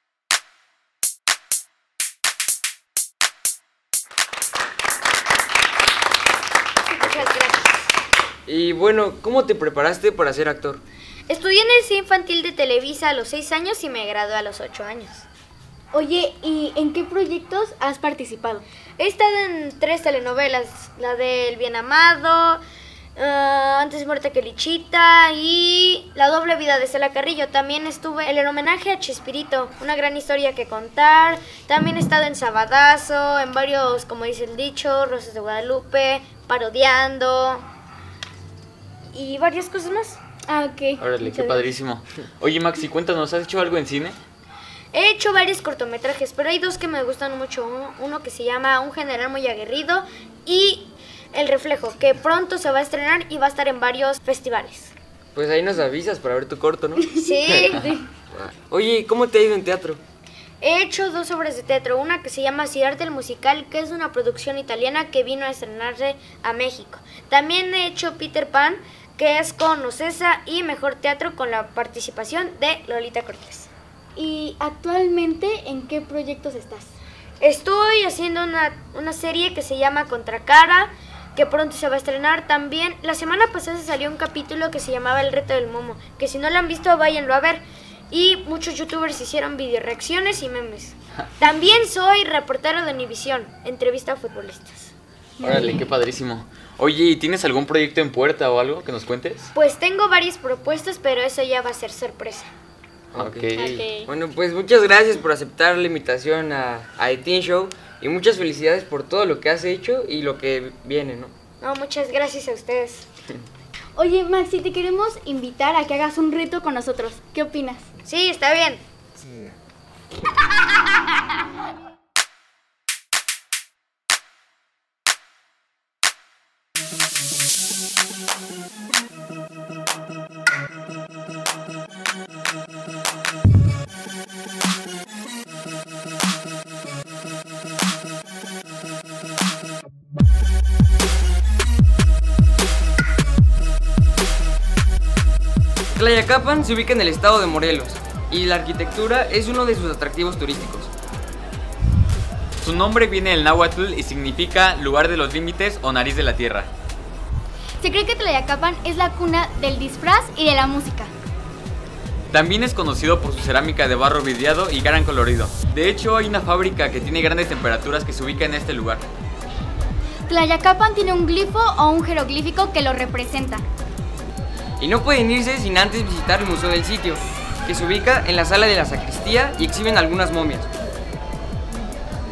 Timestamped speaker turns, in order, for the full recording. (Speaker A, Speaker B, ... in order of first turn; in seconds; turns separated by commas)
Speaker A: 6.9-7.8, Speaker B: 8.4-10.8, Speaker A: 11.3-15.2, Speaker C: 15.9-18.6, Speaker A: 19.0-22.6, Speaker A: 23.1-37.6, Speaker A: 39.1-40.2, Speaker C: 40.5-41.7, Speaker D: 41.0-44.2, Speaker A: 44.9-54.9, Speaker B: 55.3-57.8, Speaker A: 57.1-57.9, Speaker C: 57.1-58.0, Speaker B: 58.4-60.0, Speaker A: 60.6-73.7, Speaker C: 74.2-76.9, Speaker A: 77.4-94.9, Speaker C: 95.4-95.9, Speaker D: 95.4-99.5, Speaker A: 99.5-102.5, Speaker B: 103.1-111.3, Speaker D: 103.2-103.9, Speaker C: 103.5-104.1, Speaker A: 111.6-113.1, Speaker C: 114.0-117.8, Speaker A: 118.0-118.8, Speaker B: 145.9-150.9, Speaker D: 152.6-156.7, Speaker C: 157.8-161.1, Speaker D: 162.3-169.0, Speaker C: 170.3-173.6, Speaker B: 174.8-180.7